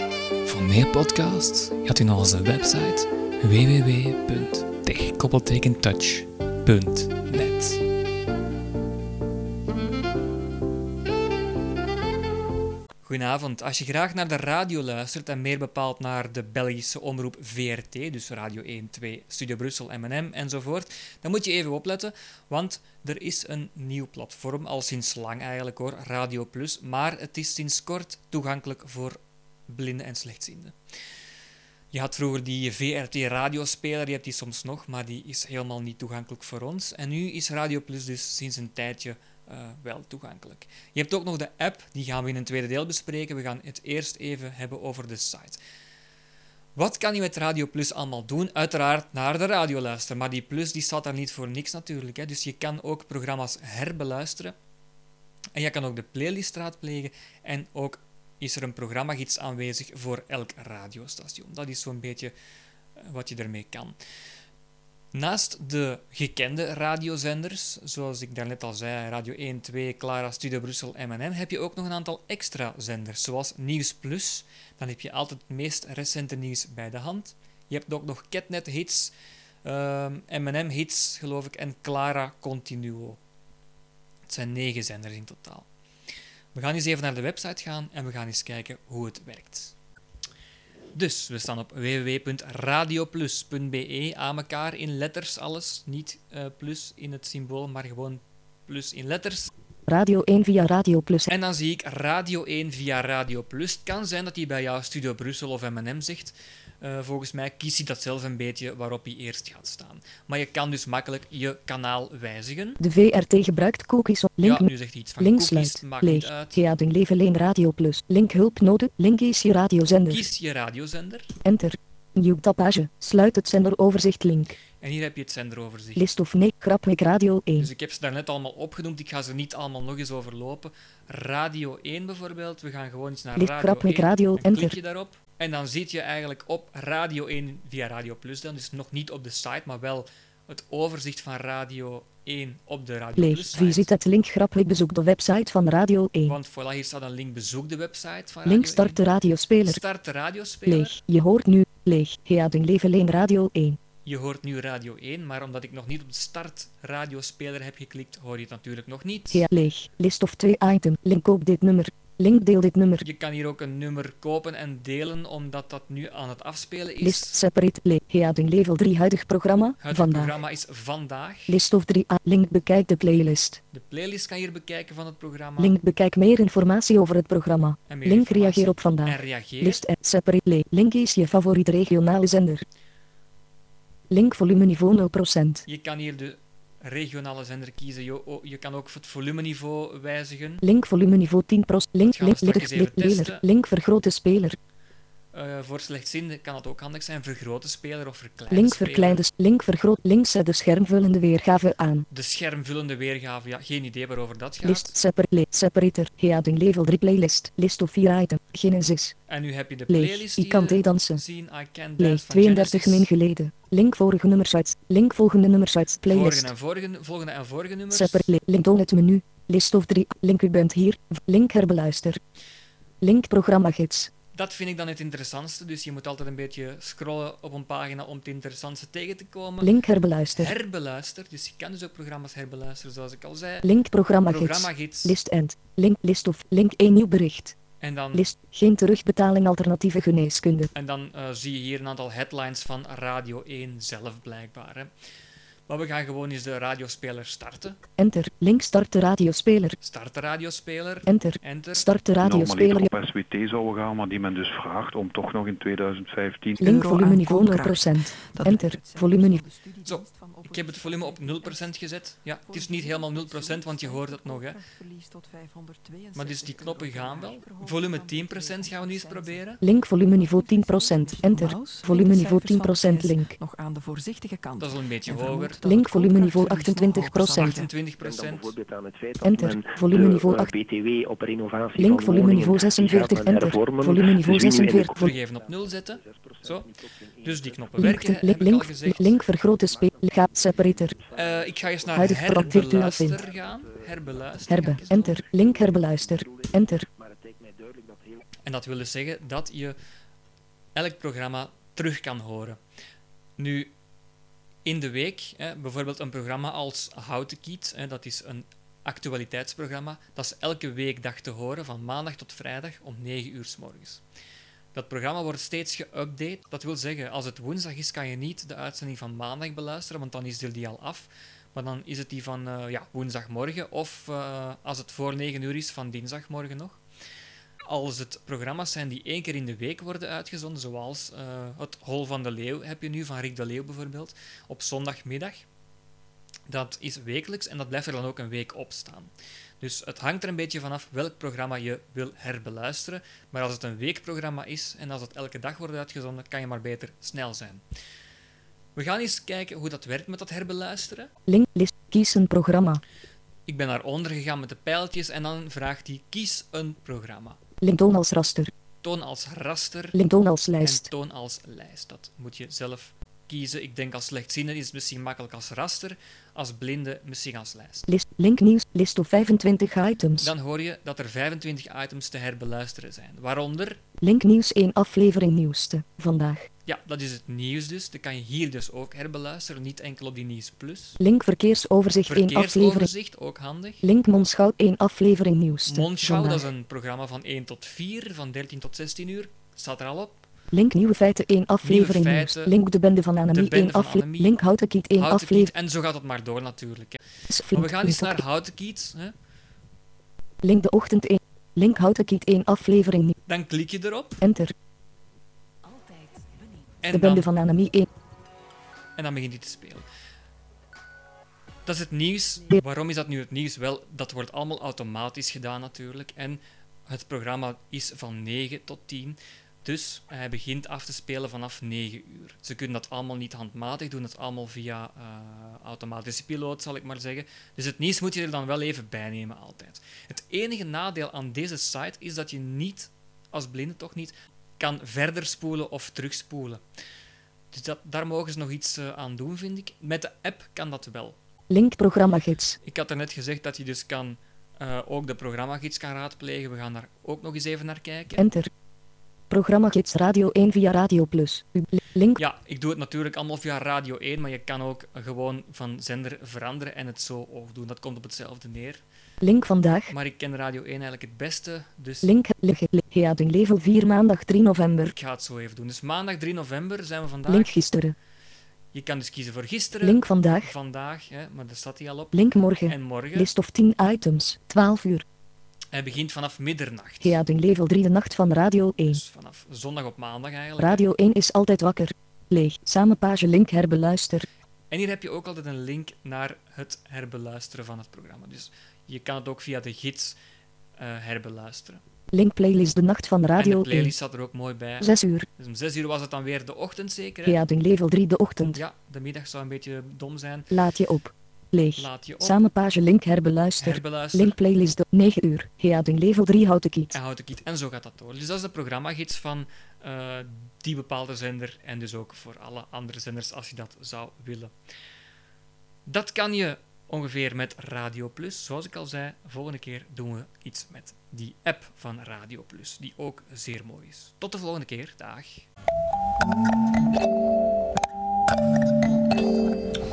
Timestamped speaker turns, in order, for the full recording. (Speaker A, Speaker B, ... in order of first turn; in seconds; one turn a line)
Speaker A: 0.5-7.8
Speaker A: 13.0-30.8
Speaker A: 31.9-45.6
Speaker A: 46.7-54.5
Speaker A: 55.5-62.3
Speaker A: 63.0-64.0
Speaker A: 65.1-79.1
Speaker A: 79.6-83.2
Speaker A: 84.3-85.7
Speaker A: 86.5-89.7
Speaker A: 90.9-99.5
Speaker B: 99.9-101.3
Speaker A: 101.3-112.8
Speaker B: 112.8-120.2
Speaker A: 114.4-116.6
Speaker A: 120.1-121.3
Speaker B: 121.4-124.6
Speaker A: 124.8-126.0
Speaker B: 126.0-127.7
Speaker A: 127.6-143.9
Speaker B: 133.3-134.8
Speaker B: 143.2-146.4
Speaker A: 146.2-149.0
Speaker B: 148.4-149.8
Speaker A: 149.6-151.0
Speaker B: 150.7-153.8
Speaker A: 154.0-159.5
Speaker B: 159.3-163.0
Speaker A: 163.0-167.4
Speaker B: 167.0-170.3
Speaker A: 169.8-171.6
Speaker B: 171.5-173.6
Speaker A: 173.7-175.8
Speaker B: 175.6-182.6
Speaker A: 177.9-179.8
Speaker B: 184.1-185.6
Speaker A: 185.7-190.6
Speaker B: 190.6-194.6
Speaker A: 192.0-193.4
Speaker A: 195.3-199.2
Speaker B: 198.5-202.1
Speaker A: 202.1-204.9
Speaker B: 204.6-209.1
Speaker A: 209.3-213.1
Speaker B: 209.9-211.2
Speaker B: 212.0-216.5
Speaker A: 216.1-218.3
Speaker B: 217.9-222.2
Speaker B: 223.0-224.1
Speaker A: 224.3-229.7
Speaker B: 229.6-230.5
Speaker A: 230.3-233.7
Speaker B: 233.6-237.6
Speaker A: 234.3-235.2
Speaker A: 237.8-238.2
Speaker B: 238.1-240.7
Speaker A: 240.7-244.9
Speaker A: 245.7-247.8
Speaker B: 248.0-249.8
Speaker A: 249.8-251.9
Speaker B: 251.1-252.9
Speaker C: 252.2-256.6
Speaker D: 256.6-261.8
Speaker B: 256.6-259.4
Speaker A: 259.8-264.6
Speaker D: 262.4-277.7
Speaker A: 266.1-269.6
Speaker B: 269.6-273.3
Speaker A: 274.6-275.6
Speaker B: 275.6-277.5
Speaker A: 277.4-278.6
Speaker E: 278.0-288.0
Speaker B: 279.2-280.5
Speaker B: 281.8-285.1
Speaker A: 284.9-286.7
Speaker A: 287.2-289.2
Speaker B: 287.8-290.9
Speaker E: 289.6-298.2
Speaker A: 291.1-295.2
Speaker B: 291.9-293.2
Speaker B: 294.5-296.9
Speaker A: 298.4-299.8
Speaker A: 300.8-302.6
Speaker A: 303.4-303.7
Speaker A: 304.6-314.0
Speaker A: 314.7-326.8
Speaker A: 327.7-335.4
Speaker A: 336.5-347.6
Speaker A: 348.8-351.1
Speaker B: 351.3-352.8
Speaker A: 353.5-357.4
Speaker B: 357.6-358.5
Speaker A: 358.8-360.0
Speaker B: 359.9-360.9
Speaker A: 360.6-367.9
Speaker B: 367.9-370.3
Speaker A: 370.2-373.8
Speaker B: 374.0-376.5
Speaker A: 376.6-381.0
Speaker B: 381.0-382.9
Speaker A: 382.1-383.8
Speaker B: 383.8-386.4
Speaker A: 385.6-390.3
Speaker B: 390.5-395.5
Speaker A: 391.6-392.5
Speaker A: 393.3-394.4
Speaker A: 395.0-397.0
Speaker B: 397.3-398.2
Speaker A: 397.5-399.1
Speaker B: 400.4-403.1
Speaker A: 403.3-404.2
Speaker B: 404.2-404.5
Speaker D: 405.7-406.7
Speaker A: 406.8-407.3
Speaker B: 406.9-407.9
Speaker A: 408.9-409.8
Speaker A: 411.6-436.6
Speaker A: 437.5-441.2
Speaker B: 441.5-442.6
Speaker A: 442.6-448.2
Speaker B: 448.2-448.5
Speaker B: 449.3-452.2
Speaker A: 452.2-458.8
Speaker B: 459.2-459.9
Speaker A: 459.9-462.1
Speaker B: 462.0-464.9
Speaker A: 464.9-467.6
Speaker B: 467.3-467.9
Speaker A: 468.7-473.3
Speaker B: 469.8-470.5
Speaker B: 472.1-475.0
Speaker A: 475.7-477.2
Speaker B: 477.0-479.0
Speaker A: 478.9-480.9
Speaker B: 480.6-484.3
Speaker A: 484.7-490.2
Speaker A: 490.8-491.8
Speaker B: 492.1-493.9
Speaker A: 493.4-497.4
Speaker B: 494.8-495.2
Speaker B: 497.2-498.6
Speaker A: 498.5-500.5
Speaker B: 500.5-506.9
Speaker A: 501.8-502.4
Speaker A: 503.6-504.3
Speaker A: 506.9-514.5
Speaker A: 515.9-525.5